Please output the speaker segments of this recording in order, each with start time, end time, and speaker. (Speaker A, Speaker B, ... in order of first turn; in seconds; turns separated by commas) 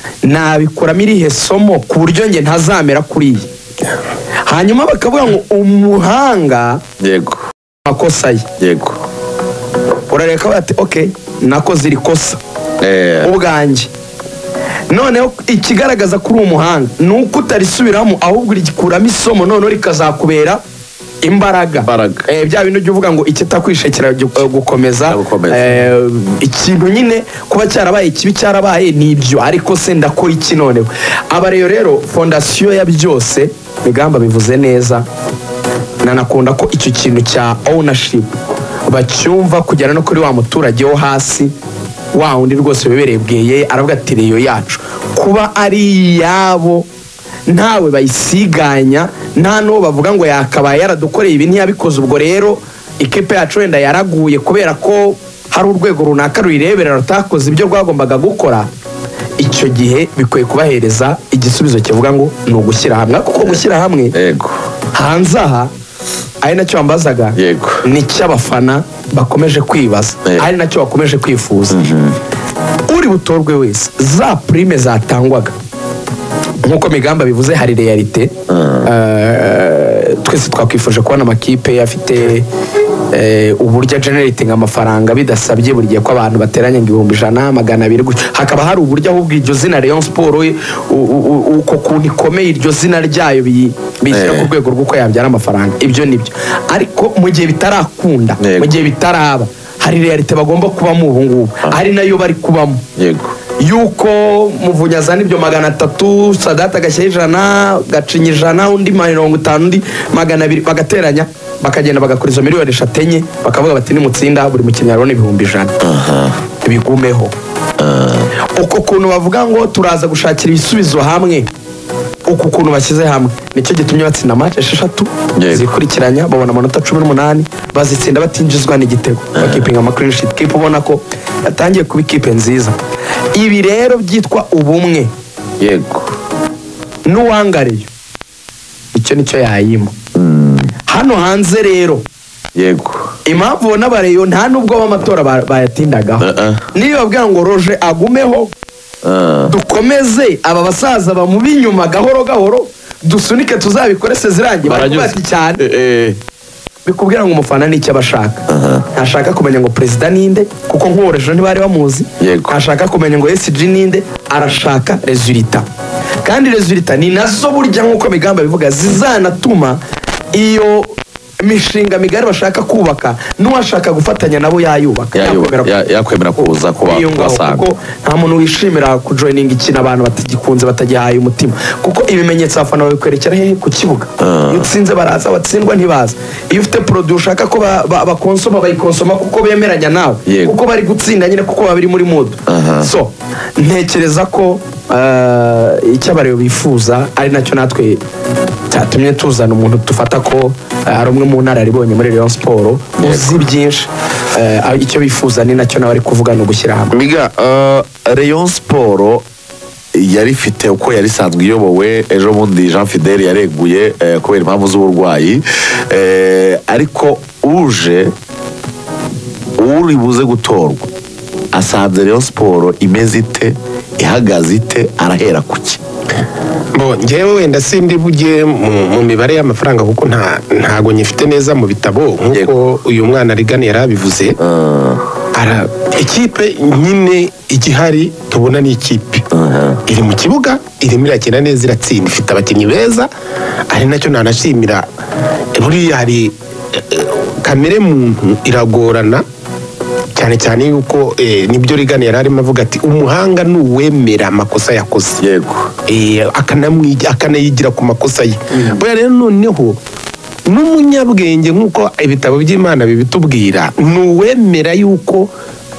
Speaker A: 0.2-3.5, Speaker A: 4.5-6.8, Speaker B: 7.0-7.4, Speaker A: 7.9-8.4, Speaker B: 8.6-9.0, Speaker A: 10.1-12.4, Speaker B: 12.8-13.3, Speaker A: 13.2-13.9, Speaker A: 14.9-20.6, Speaker A: 21.2-35.0, Speaker B: 21.7-22.3, Speaker B: 25.1-25.8, Speaker A: 36.0-38.3, Speaker A: 38.9-41.5, Speaker A: 42.1-46.9, Speaker A: 47.5-58.7, Speaker A: 59.4-64.2, Speaker B: 64.1-64.6, Speaker A: 64.9-65.7, Speaker A: 66.4-71.8, Speaker B: 67.4-67.8, Speaker B: 71.7-72.2, Speaker A: 72.9-75.5, Speaker A: 76.7-78.3, Speaker B: 78.5-78.9, Speaker A: 78.8-82.5, Speaker A: 83.1-102.8, Speaker B: 94.1-94.5, Speaker B: 98.4-98.7, Speaker B: 103.0-103.3, Speaker A: 103.6-115.7, Speaker B: 115.8-116.3, Speaker A: 116.6-117.3, Speaker B: 117.8-118.3, Speaker A: 118.5-121.5, Speaker A: 122.3-132.8, Speaker B: 125.4-125.7, Speaker B: 129.4-129.7, Speaker A: 133.3-135.1, Speaker B: 135.6-136.1, Speaker A: 137.1-137.9, Speaker A: 138.9-139.9, Speaker B: 140.2-140.7, Speaker A: 140.9-142.0, Speaker B: 142.6-143.1, Speaker A: 143.3-148.5, Speaker B: 146.2-146.6, Speaker B: 149.0-149.5, Speaker A: 149.5-155.6, Speaker B: 154.6-156.2, Speaker A: 156.8-158.4, Speaker B: 158.5-158.8, Speaker A: 158.9-165.7, Speaker B: 162.2-162.5, Speaker A: 166.2-169.8, Speaker A: 170.3-175.7, Speaker B: 175.2-177.6, Speaker A: 176.4-198.0, Speaker B: 184.2-184.7, Speaker B: 190.3-190.5, Speaker B: 192.5-192.9, Speaker A: 198.7-206.9, Speaker B: 203.0-203.5, Speaker B: 206.9-209.2, Speaker B: 209.9-218.1, Speaker B: 219.6-220.9, Speaker B: 221.5-225.8, Speaker C: 226.8-234.4, Speaker B: 234.4-235.0, Speaker C: 235.3-239.2, Speaker B: 239.3-239.8, Speaker C: 239.9-243.1, Speaker C: 243.7-244.9, Speaker C: 245.6-249.2, Speaker C: 250.2-255.2, Speaker B: 255.2-255.7, Speaker C: 255.9-259.8, Speaker C: 260.5-265.3